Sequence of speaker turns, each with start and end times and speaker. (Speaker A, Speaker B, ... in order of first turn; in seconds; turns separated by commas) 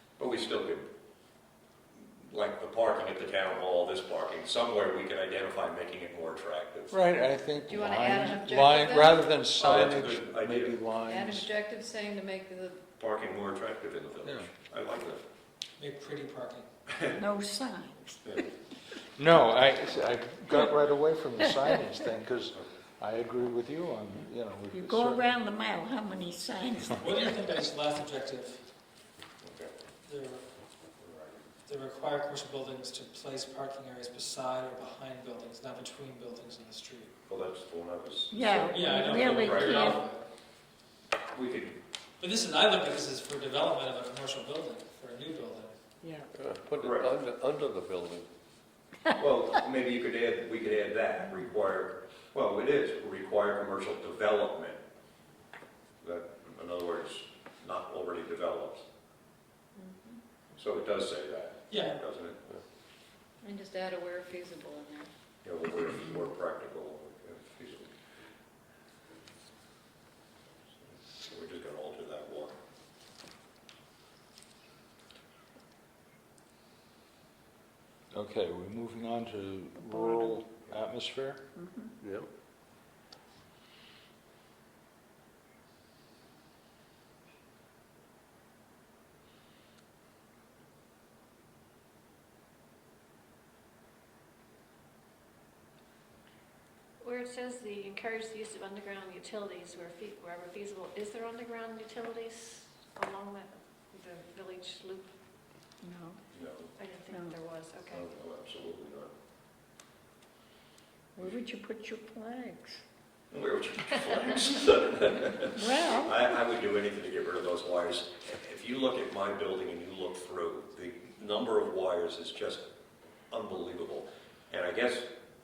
Speaker A: 0.2-0.9, Speaker A: 2.0-7.0, Speaker B: 6.9-11.5, Speaker C: 7.7-9.3, Speaker A: 9.5-10.9, Speaker C: 11.0-12.9, Speaker A: 13.0-15.2, Speaker B: 14.2-14.5, Speaker D: 15.8-16.7, Speaker A: 16.9-17.2, Speaker E: 17.2-18.2, Speaker A: 18.2-18.5, Speaker B: 19.2-25.3, Speaker E: 24.7-27.3, Speaker D: 27.0-28.6, Speaker A: 29.4-29.7, Speaker D: 30.0-30.4, Speaker A: 31.0-31.4, Speaker D: 31.6-37.1, Speaker A: 37.2-40.0, Speaker E: 38.3-40.0, Speaker D: 38.4-40.2, Speaker A: 41.3-41.8, Speaker D: 42.2-45.7, Speaker E: 46.0-46.3, Speaker F: 46.3-48.3, Speaker A: 46.8-47.1, Speaker A: 49.1-54.8, Speaker A: 56.0-58.8, Speaker C: 59.8-60.2, Speaker A: 60.5-62.4, Speaker D: 61.7-62.0, Speaker C: 63.4-65.1, Speaker A: 65.4-67.9, Speaker A: 70.9-72.6, Speaker B: 78.1-81.5, Speaker E: 79.8-80.3, Speaker E: 81.5-81.9, Speaker F: 82.0-82.3, Speaker G: 97.0-105.1, Speaker E: 105.8-106.2, Speaker A: 106.3-106.7, Speaker G: 106.8-108.0, Speaker E: 107.1-107.4, Speaker A: 107.9-109.1, Speaker E: 111.2-112.8, Speaker A: 113.3-122.7, Speaker E: 115.5-116.2, Speaker A: 123.3-125.1